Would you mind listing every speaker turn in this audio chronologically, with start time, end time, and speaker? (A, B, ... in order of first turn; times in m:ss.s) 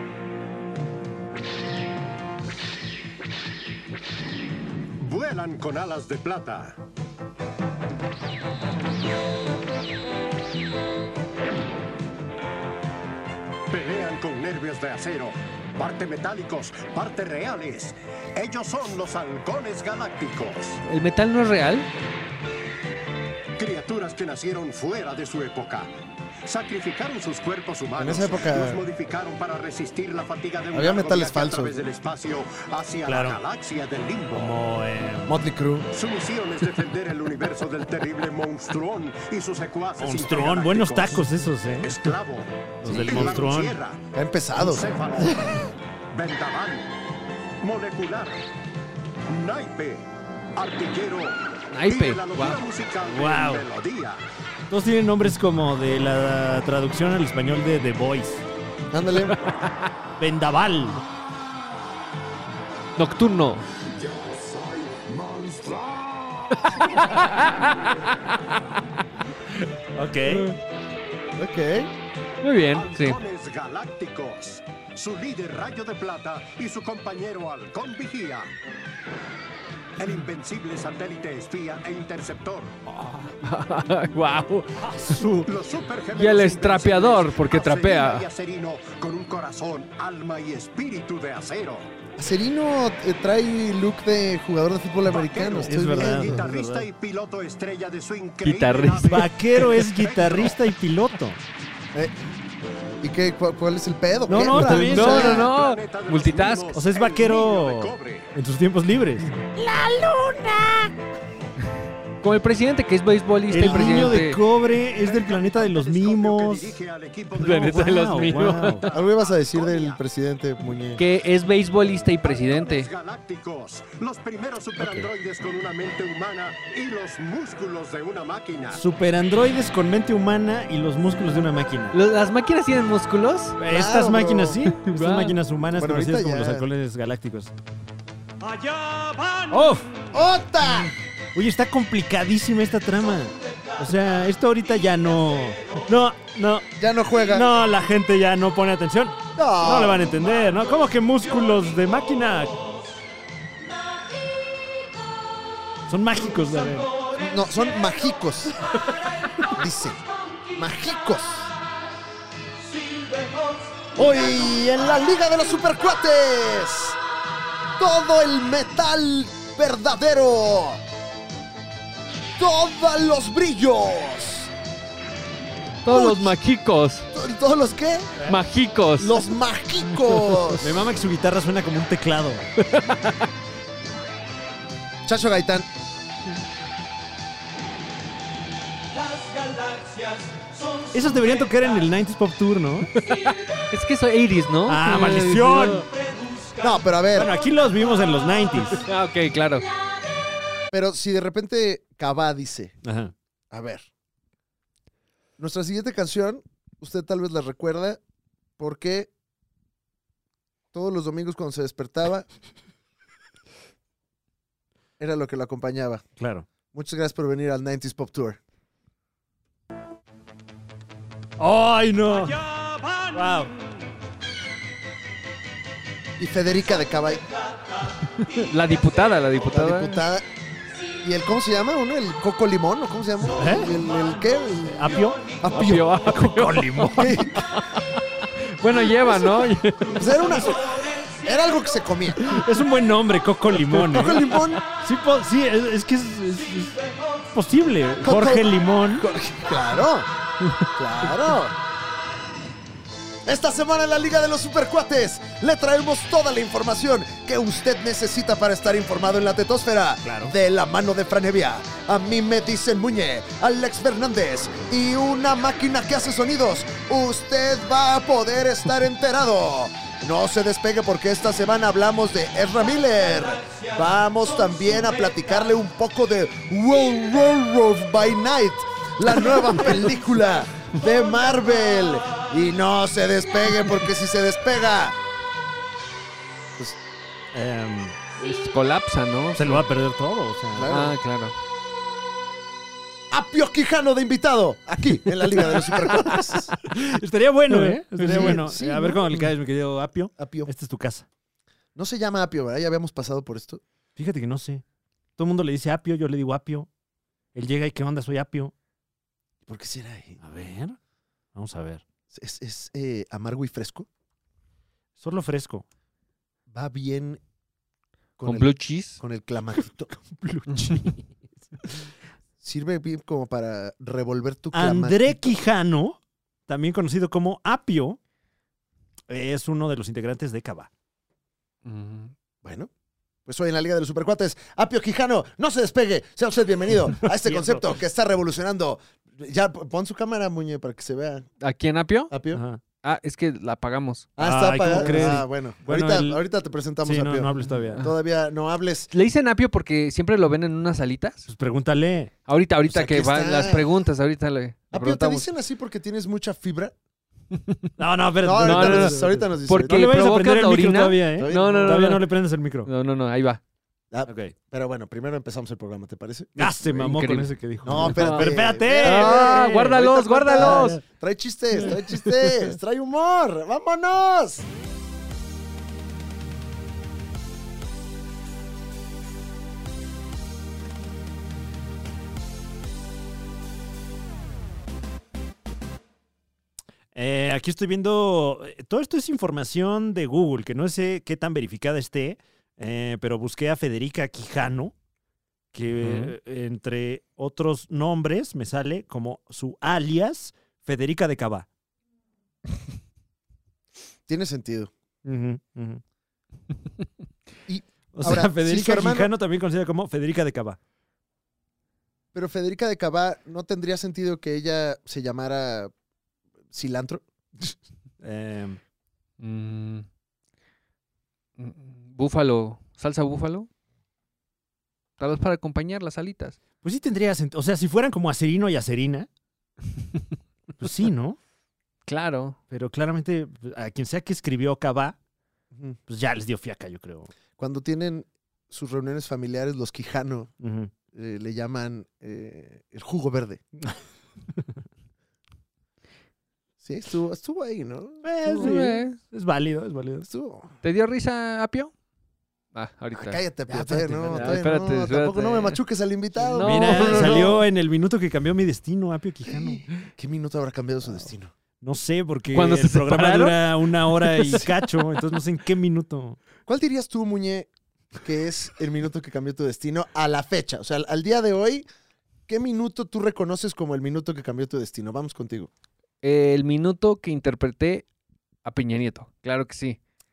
0:05.0-0:06.8 A
0:13.7-0:20.8 A
0:20.8-0:21.9 B
0:23.6-0:25.9 A
0:26.4-0:34.6 A
0:28.0-0:28.8 C
0:30.7-0:31.8 C
0:33.0-0:33.4 D
0:34.3-0:35.4 D
0:35.3-0:35.9 C
0:35.9-0:41.3 A
0:40.0-0:42.0 D
0:41.8-0:44.0 A
0:42.8-0:43.8 D
0:43.0-0:43.4 C
0:44.1-0:45.7 C
0:44.5-0:46.9 A
0:47.6-0:48.4 A
0:49.3-0:50.0 A
0:50.6-0:54.2 A
0:51.7-0:52.6 B
0:53.0-0:53.6 D
0:54.7-0:58.4 D
0:58.9-0:59.5 C
0:59.4-0:59.6 B
1:00.2-1:01.0 D
1:03.0-1:03.6 B
1:04.1-1:06.8 A
1:06.8-1:08.8 B
1:10.0-1:10.5 D
1:10.3-1:10.6 B
1:11.4-1:11.9 C
1:12.4-1:13.2 B
1:12.7-1:18.5 A
1:20.0-1:22.7 A
1:22.9-1:23.2 D
1:23.2-1:25.2 B
1:24.8-1:25.5 D
1:25.4-1:31.9 A
1:26.2-1:28.3 B
1:32.2-1:36.5 C
1:35.1-1:40.6 A
1:35.6-1:36.9 D
1:38.4-1:39.3 B
1:39.0-1:41.4 D
1:43.0-1:45.5 C
1:44.3-1:45.5 D
1:44.6-1:48.3 A
1:44.8-1:46.7 B
1:46.7-1:49.3 D
1:49.6-1:50.5 C
1:52.2-1:54.4 B
1:53.5-1:56.8 D
1:53.6-1:54.1 C
1:54.8-2:00.0 A
1:57.4-1:58.9 B
1:57.4-1:58.9 D
1:58.9-2:01.0 C
2:01.0-2:02.9 B
2:02.2-2:08.8 A
2:04.8-2:05.1 D
2:08.7-2:12.0 D
2:11.9-2:13.6 B
2:13.6-2:17.5 D
2:13.7-2:14.6 C
2:14.8-2:15.4 B
2:15.7-2:16.7 C
2:18.4-2:19.5 A
2:19.5-2:19.9 D
2:20.1-2:20.9 C
2:21.3-2:26.7 D
2:26.8-2:27.5 C
2:27.3-2:32.6 D
2:29.4-2:30.0 C
2:35.9-2:36.9 D
2:37.2-2:38.6 C
2:39.5-2:40.0 C
2:40.6-2:41.5 C
2:44.0-2:47.0 C
2:47.8-2:50.8 C
2:52.4-2:54.5 C
2:55.8-2:57.1 B
2:55.9-2:56.3 C
2:57.1-2:58.1 C
2:58.3-2:59.3 B
2:59.0-3:00.8 C
3:00.6-3:02.5 D
3:02.6-3:03.2 B
3:05.1-3:05.7 C
3:10.9-3:12.9 D
3:13.1-3:15.9 B
3:14.7-3:15.9 D
3:16.6-3:17.3 C
3:17.1-3:18.8 D
3:18.7-3:19.7 B
3:20.7-3:22.8 C
3:22.8-3:23.1 D
3:23.5-3:23.8 C
3:25.4-3:28.0 C
3:28.6-3:29.1 C
3:30.7-3:32.3 C
3:35.0-3:36.0 C
3:36.2-3:36.5 D
3:36.7-3:38.4 C
3:41.4-3:42.4 D
3:43.1-3:43.5 D
3:46.2-3:47.3 C
3:48.2-3:50.0 B
3:49.5-3:50.3 C
3:51.0-3:55.9 C
3:53.3-3:53.8 D
3:54.7-3:55.2 D
3:55.5-4:00.2 B
3:55.8-3:57.3 D
3:56.9-3:57.4 C
4:00.0-4:02.4 C
4:02.2-4:06.8 D
4:03.7-4:04.6 C
4:07.3-4:09.1 D
4:08.0-4:08.5 C
4:09.0-4:10.1 C
4:10.7-4:11.6 C
4:13.3-4:45.0 C
4:20.0-4:20.3 D
4:47.3-4:48.0 D
4:48.2-4:49.6 B
4:49.3-4:50.9 D
4:50.6-4:50.9 C
4:50.7-4:51.3 B
4:53.1-4:56.6 C
4:55.4-5:01.1 D
4:57.6-4:58.5 B
4:57.9-4:59.3 C
5:00.2-5:00.5 C
5:01.8-5:03.6 C
5:04.0-5:04.6 D
5:05.2-5:06.7 D
5:07.3-5:08.5 D
5:09.5-5:10.2 C
5:10.2-5:10.8 D
5:11.4-5:11.8 D
5:12.1-5:13.9 C
5:15.0-5:15.6 D
5:16.5-5:17.2 C
5:18.2-5:19.9 C
5:18.2-5:19.0 B
5:19.9-5:21.0 D
5:20.5-5:20.8 B
5:22.4-5:25.3 C
5:24.5-5:28.0 D
5:29.1-5:30.7 D
5:31.6-5:32.1 B
5:32.4-5:32.7 C
5:33.3-5:41.3 C
5:37.0-5:37.8 D
5:41.4-5:42.1 B
5:42.1-5:42.4 C
5:42.3-5:42.6 D
5:42.8-5:44.1 B
5:44.2-5:48.9 C
5:44.2-5:46.2 D
5:44.7-5:45.2 B
5:46.8-5:47.8 D
5:47.7-5:48.0 B
5:48.9-5:51.3 B
5:51.3-5:52.1 D
5:52.3-5:55.3 B
5:52.7-5:53.7 C
5:54.7-5:56.8 C
5:57.3-5:57.7 B
5:57.8-6:02.7 D
5:58.2-5:59.9 C
5:58.4-6:02.0 B
6:01.2-6:01.8 C
6:02.7-6:03.4 B
6:03.9-6:06.7 C
6:04.1-6:04.3 D
6:06.4-6:10.8 D
6:06.7-6:10.8 B
6:07.6-6:14.5 C
6:11.6-6:12.5 D
6:26.9-6:34.7 D
6:35.5-6:41.5 D
6:35.8-6:36.1 B
6:44.1-6:44.7 C
6:45.0-6:45.8 D
6:47.5-6:49.1 C
6:47.9-6:50.6 D
6:52.1-6:55.7 C
6:56.5-6:57.0 C
6:58.0-6:58.6 D
6:59.2-6:59.9 B
7:01.4-7:03.5 B
7:05.0-7:06.4 B
7:06.6-7:09.1 D
7:10.6-7:11.2 D
7:11.9-7:12.4 B
7:12.5-7:15.0 D
7:15.5-7:15.8 C
7:15.9-7:17.1 D
7:17.4-7:20.3 C
7:20.4-7:20.7 D
7:20.9-7:23.4 C
7:26.6-7:28.5 C
7:28.0-7:30.1 D
7:28.2-7:29.0 B
7:30.0-7:30.5 C
7:30.6-7:31.7 B
7:32.5-7:35.6 B
7:32.9-7:37.4 C
7:33.8-7:34.5 D
7:36.2-7:37.4 B
7:36.4-7:39.6 D
7:39.3-7:41.3 C
7:41.6-7:46.2 D
7:42.3-7:44.5 B
7:46.5-7:47.5 C
7:48.0-7:51.6 C
7:52.3-7:55.5 C
7:56.0-7:57.9 B
7:58.4-7:59.8 B